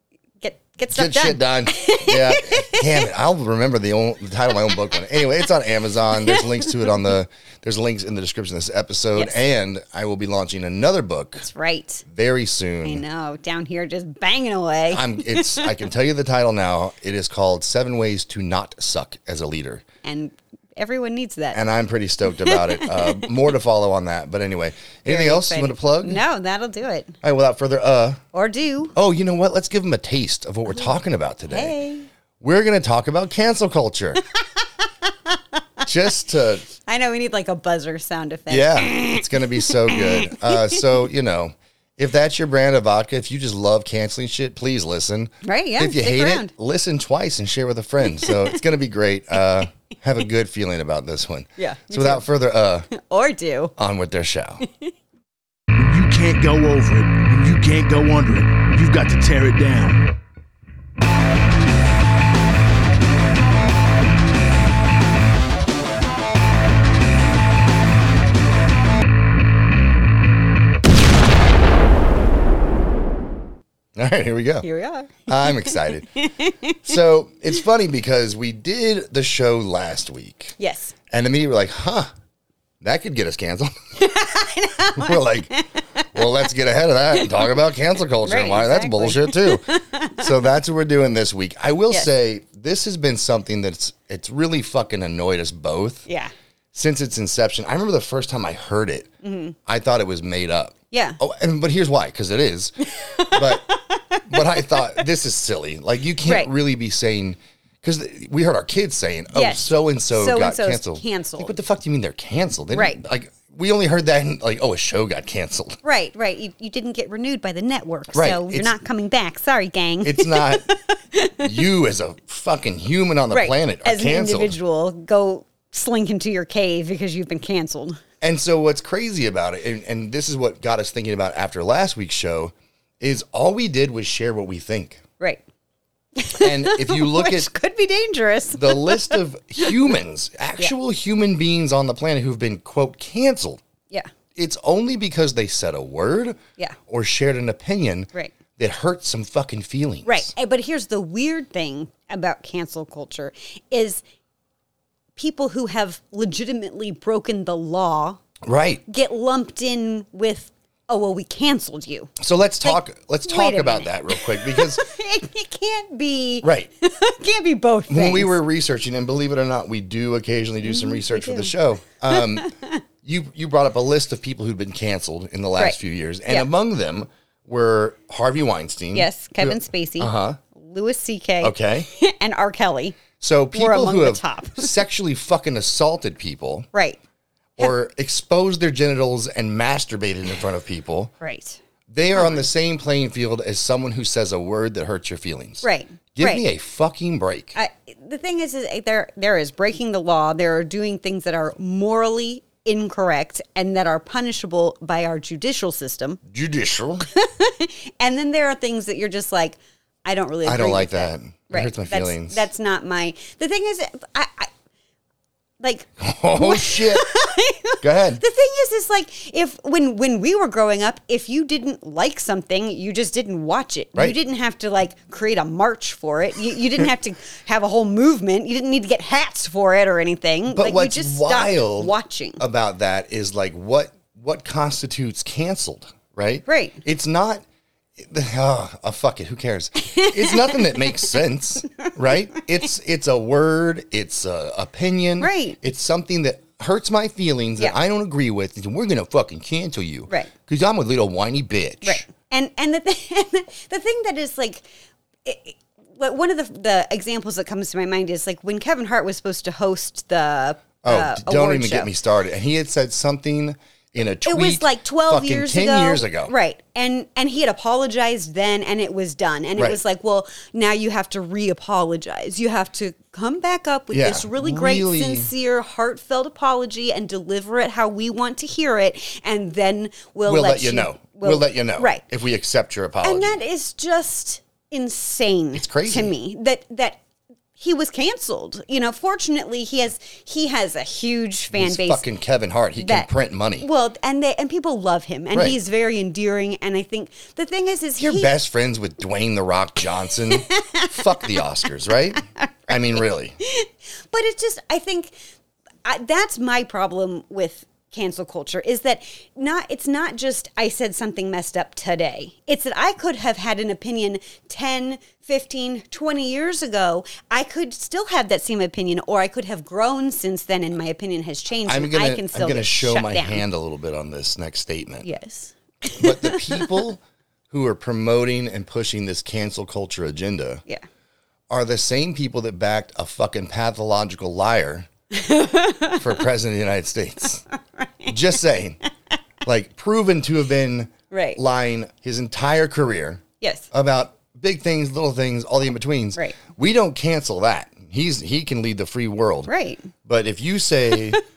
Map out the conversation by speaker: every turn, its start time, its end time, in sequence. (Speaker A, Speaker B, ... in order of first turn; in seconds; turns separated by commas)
Speaker A: 0.4-3.1, Speaker B: 0.9-11.5, Speaker A: 4.7-5.5, Speaker A: 6.1-7.1, Speaker A: 11.4-12.0, Speaker B: 12.1-13.0, Speaker A: 12.8-15.7, Speaker B: 14.9-19.8, Speaker A: 20.0-21.6, Speaker B: 21.5-26.2, Speaker A: 22.3-23.4, Speaker A: 25.1-27.2, Speaker B: 27.2-28.2, Speaker A: 28.3-28.9, Speaker B: 28.9-31.8, Speaker A: 31.5-32.1, Speaker B: 32.4-34.2, Speaker A: 34.4-35.9, Speaker B: 35.9-36.7, Speaker A: 36.7-40.8, Speaker B: 38.5-52.9, Speaker A: 45.4-46.5, Speaker A: 48.0-48.6, Speaker A: 51.6-52.3, Speaker A: 52.9-53.7, Speaker B: 53.8-54.7, Speaker A: 54.6-54.9, Speaker C: 55.8-60.1, Speaker B: 74.0-74.7, Speaker A: 74.6-77.0, Speaker B: 75.3-76.1, Speaker B: 76.8-80.6, Speaker A: 80.6-80.9, Speaker B: 81.1-82.1, Speaker B: 82.8-84.0, Speaker A: 84.0-86.5, Speaker B: 84.9-85.6, Speaker B: 86.1-96.1, Speaker A: 87.2-87.5, Speaker A: 88.2-90.4, Speaker A: 96.1-96.3, Speaker B: 96.7-99.1, Speaker A: 99.2-99.5, Speaker B: 99.7-115.8, Speaker A: 100.9-101.2, Speaker A: 103.0-105.0, Speaker A: 106.2-106.5, Speaker A: 109.3-111.6, Speaker A: 112.7-113.0, Speaker A: 115.8-121.7, Speaker B: 118.1-118.8, Speaker B: 120.0-120.8, Speaker B: 121.4-124.6, Speaker A: 123.3-128.0, Speaker B: 128.2-135.0, Speaker A: 136.2-139.8, Speaker B: 136.3-137.5, Speaker B: 138.5-143.6, Speaker B: 144.3-150.3, Speaker A: 150.1-154.0, Speaker A: 155.2-158.2, Speaker B: 158.4-158.8, Speaker A: 158.9-168.4, Speaker B: 162.2-164.8, Speaker B: 166.4-166.7, Speaker B: 167.9-180.4, Speaker A: 170.6-171.5, Speaker A: 172.1-172.8, Speaker A: 178.9-183.0, Speaker B: 181.4-181.9, Speaker B: 183.2-186.7, Speaker A: 183.5-184.8, Speaker A: 186.7-187.0, Speaker B: 187.6-191.1, Speaker A: 191.2-191.6, Speaker B: 191.9-197.6, Speaker A: 192.2-192.5, Speaker A: 195.6-196.4, Speaker A: 197.6-206.2, Speaker B: 206.3-207.1, Speaker A: 207.0-214.5, Speaker B: 210.4-212.4, Speaker A: 215.6-232.4, Speaker B: 216.0-217.1, Speaker B: 217.8-218.2, Speaker B: 230.5-237.4, Speaker A: 236.5-236.8, Speaker B: 238.0-252.1, Speaker A: 239.8-241.2, Speaker A: 241.8-242.4, Speaker A: 245.2-245.6, Speaker A: 251.8-254.7, Speaker A: 255.2-261.9, Speaker B: 260.8-266.3, Speaker A: 264.2-282.0, Speaker B: 273.9-275.3, Speaker B: 280.3-283.4, Speaker A: 283.0-287.0, Speaker B: 285.5-286.1, Speaker A: 287.6-292.0, Speaker B: 291.5-293.7, Speaker A: 292.8-293.1, Speaker A: 293.6-298.3, Speaker B: 298.0-303.4, Speaker A: 300.3-301.4, Speaker A: 302.1-305.2, Speaker A: 305.9-323.4, Speaker B: 321.7-325.1, Speaker A: 325.0-326.8, Speaker B: 325.9-330.6, Speaker B: 331.5-334.9, Speaker A: 335.1-336.2, Speaker B: 335.9-337.4, Speaker A: 337.6-338.4, Speaker B: 338.1-338.8, Speaker B: 339.4-349.5, Speaker A: 341.1-341.4, Speaker A: 343.4-343.7, Speaker A: 349.5-349.9, Speaker B: 350.0-351.2